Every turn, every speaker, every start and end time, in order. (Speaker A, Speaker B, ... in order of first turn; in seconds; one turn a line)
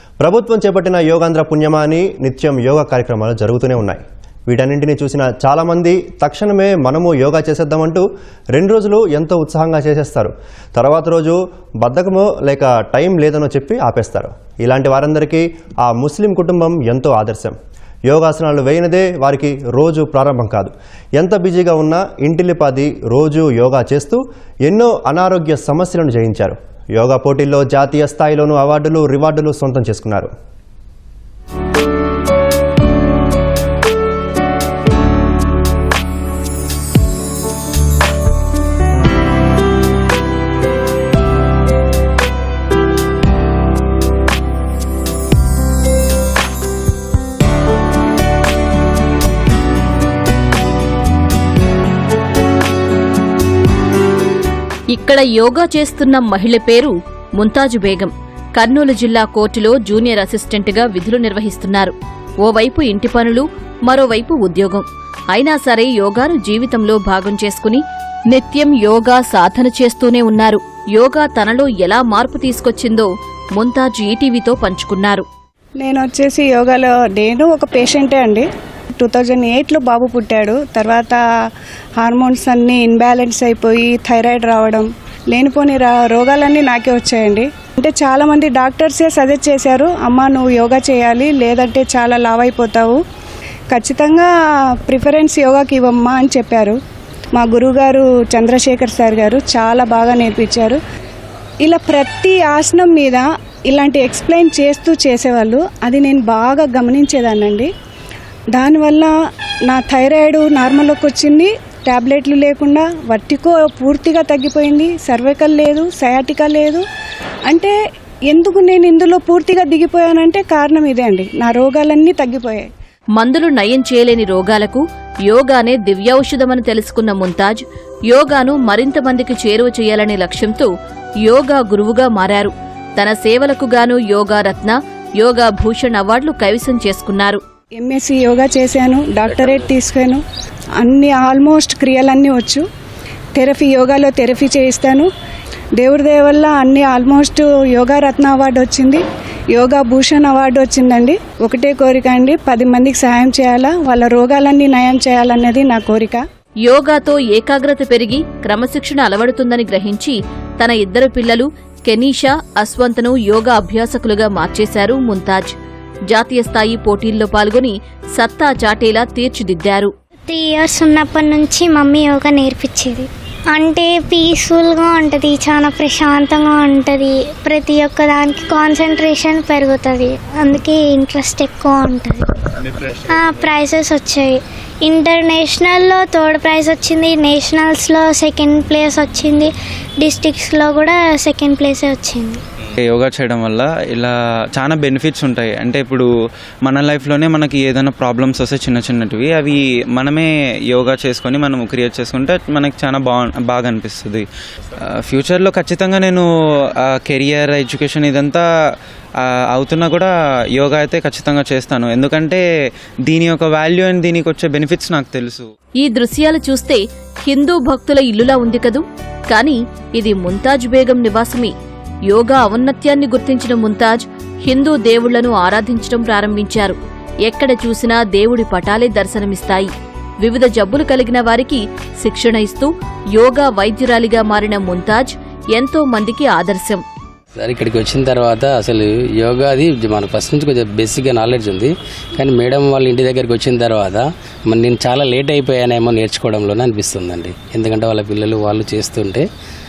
Speaker A: 0.2-17.6
Speaker A: 18.1-30.3
Speaker B: 54.9-75.2
Speaker C: 75.8-81.2
Speaker C: 82.0-93.0
Speaker C: 93.7-94.3
Speaker C: 94.8-96.8
Speaker C: 97.3-100.8
Speaker C: 101.6-107.7
Speaker C: 108.5-109.1
Speaker C: 109.7-116.8
Speaker C: 117.5-117.7
Speaker C: 118.3-122.7
Speaker B: 123.2-130.7
Speaker B: 131.2-137.4
Speaker C: 137.8-140.2
Speaker C: 140.8-142.6
Speaker C: 143.3-145.1
Speaker C: 145.8-156.2
Speaker B: 156.6-165.5
Speaker B: 166.1-169.9
Speaker D: 170.3-192.4
Speaker E: 192.8-196.1
Speaker E: 196.7-204.2
Speaker E: 204.9-206.2
Speaker E: 206.9-208.4
Speaker E: 209.2-212.4
Speaker E: 213.1-215.5
Speaker B: 215.8-221.5
Speaker B: 222.1-229.7
Speaker B: 230.2-236.8
Speaker F: 237.4-249.2